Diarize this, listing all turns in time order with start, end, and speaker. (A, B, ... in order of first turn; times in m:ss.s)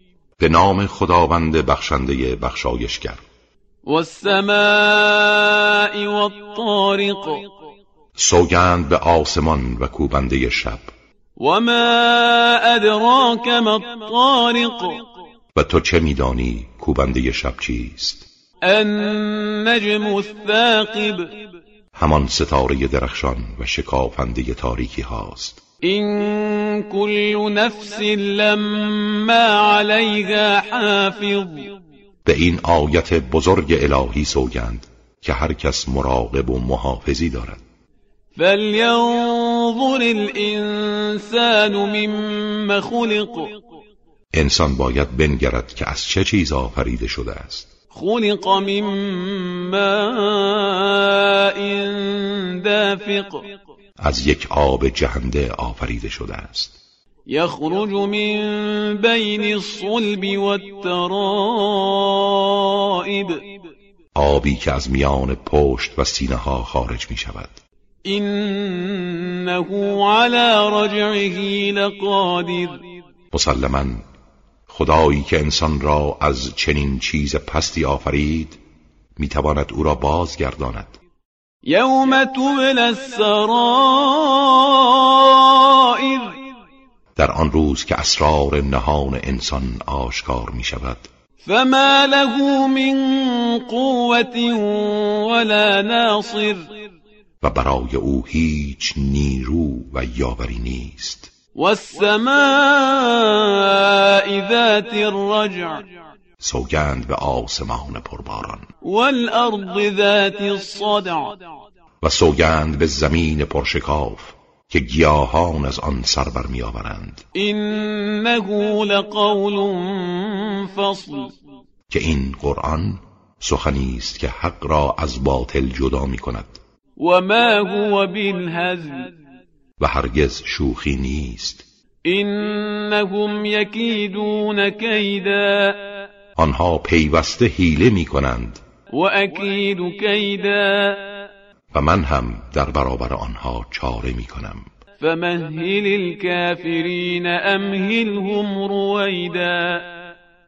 0:00.4-0:03.2 A
0:03.9-0:07.4 B
0:08.2-0:10.8 A
0:11.4-0:15.0 B
0:15.6-0:18.2 A
0:18.6-0:21.3 B
0:22.0-0:25.6 A
0:25.8-0:31.7 B
0:32.2-0:37.6 A
0:38.4-0:43.6 B
0:44.3-0:47.7 A
0:47.9-0:53.4 B
0:54.0-0:56.8 A
0:57.3-1:03.4 B
1:04.2-1:07.6 A
1:08.1-1:12.8 B
1:13.3-1:14.0 A
1:14.7-1:18.6 A
1:19.2-1:20.9 A
1:21.7-1:26.3 B
1:27.2-1:31.1 A
1:31.4-1:36.8 B
1:37.4-1:41.3 A
1:41.6-1:45.8 B
1:46.4-1:48.7 A
1:48.8-1:51.4 B
1:52.0-1:57.2 A
1:57.4-2:01.4 B
2:01.9-2:06.6 A
2:07.0-2:09.2 B
2:09.8-2:11.6 A
2:12.1-2:15.8 B
2:16.4-2:18.6 A
2:18.9-2:21.2 B
2:21.7-2:24.7 A
2:25.0-2:29.8 B